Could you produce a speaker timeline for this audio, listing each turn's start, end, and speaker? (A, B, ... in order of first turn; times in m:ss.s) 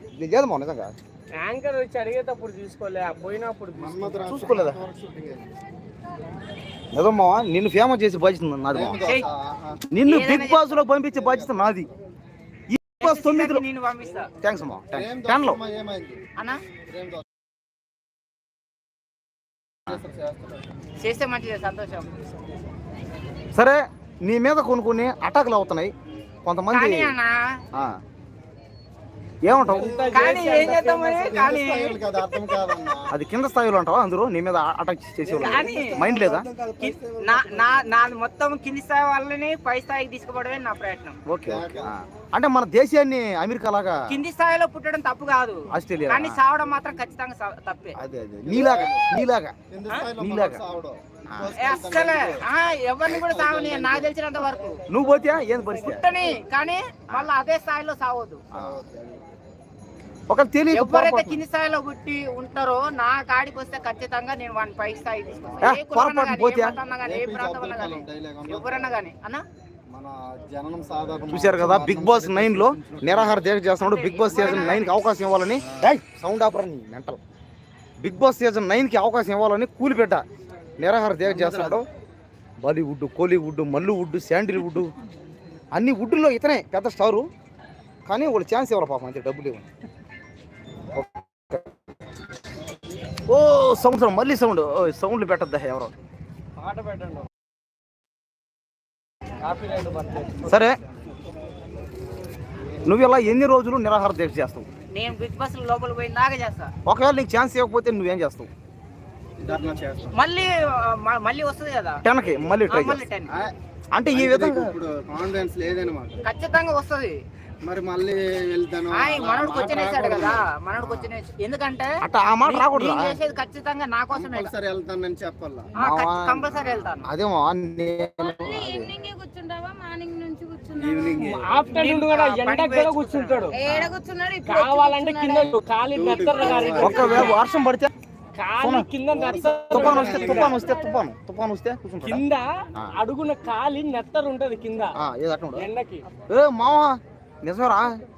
0:00.2-0:00.9 A
0:01.4-0:04.5 B
0:03.8-0:05.5 C
0:04.3-0:04.8 A
0:06.9-0:09.0 A
0:08.7-0:09.8 C
0:09.0-0:09.3 D
0:09.9-0:11.9 A
0:10.1-0:10.7 D
0:11.1-0:11.9 C
0:12.7-0:13.6 A
0:13.0-0:14.3 D
0:14.4-0:15.6 A
0:15.0-0:16.2 C
0:16.9-0:17.2 C
0:19.9-0:20.6 C
0:21.0-0:22.1 D
0:23.5-0:25.9 A
0:26.4-0:27.2 A
0:26.7-0:27.4 D
0:29.4-0:30.1 A
0:29.6-0:31.5 B
0:29.7-0:33.1 C
0:30.1-0:32.6 D
0:33.1-0:36.5 A
0:35.3-0:37.8 C
0:35.3-0:36.1 D
0:36.8-0:41.2 D
0:41.3-0:44.2 A
0:41.4-0:41.9 C
0:44.1-0:48.0 D
0:45.7-0:46.4 A
0:48.0-0:49.6 A
0:48.5-0:49.1 C
0:49.7-0:52.4 C
0:50.2-0:50.6 A
0:51.6-0:54.8 D
0:53.0-0:54.1 C
0:54.9-0:56.1 A
0:55.8-0:58.4 D
0:58.5-0:58.8 A
0:58.5-0:59.2 C
1:00.3-1:01.4 A
1:00.7-1:09.4 D
1:05.6-1:06.8 A
1:07.0-1:09.0 C
1:09.9-1:13.4 C
1:11.3-1:17.2 A
1:13.8-1:15.0 D
1:14.3-1:14.8 C
1:18.0-1:20.2 A
1:20.8-1:21.9 A
1:21.3-1:21.8 C
1:22.6-1:24.9 A
1:25.7-1:27.3 A
1:28.1-1:29.6 A
1:30.9-1:31.6 A
1:33.3-1:35.9 A
1:36.6-1:37.3 B
1:39.4-1:40.6 B
1:40.4-1:40.8 A
1:42.8-1:44.7 A
1:44.9-1:46.7 D
1:46.8-1:48.5 A
1:49.4-1:50.2 C
1:50.1-1:52.0 D
1:52.0-1:53.1 A
1:52.7-1:53.3 D
1:53.3-1:53.5 C
1:54.0-1:54.7 A
1:54.1-1:56.2 C
1:56.2-1:57.2 D
1:57.6-2:01.1 C
1:58.9-2:04.5 D
2:02.0-2:03.2 A
2:04.1-2:05.7 C
2:05.8-2:07.1 D
2:05.8-2:08.9 A
2:08.2-2:11.4 E
2:10.8-2:11.7 C
2:11.2-2:13.6 B
2:11.7-2:13.8 D
2:13.5-2:15.6 E
2:13.7-2:13.9 A
2:14.4-2:17.4 B
2:15.9-2:17.4 C
2:16.4-2:17.3 E
2:16.8-2:17.9 A
2:18.4-2:20.6 B
2:18.6-2:18.9 A
2:19.1-2:20.6 C
2:19.7-2:22.2 A
2:20.1-2:21.0 E
2:22.0-2:24.9 B
2:25.0-2:25.7 A
2:25.6-2:26.1 B
2:26.3-2:27.9 A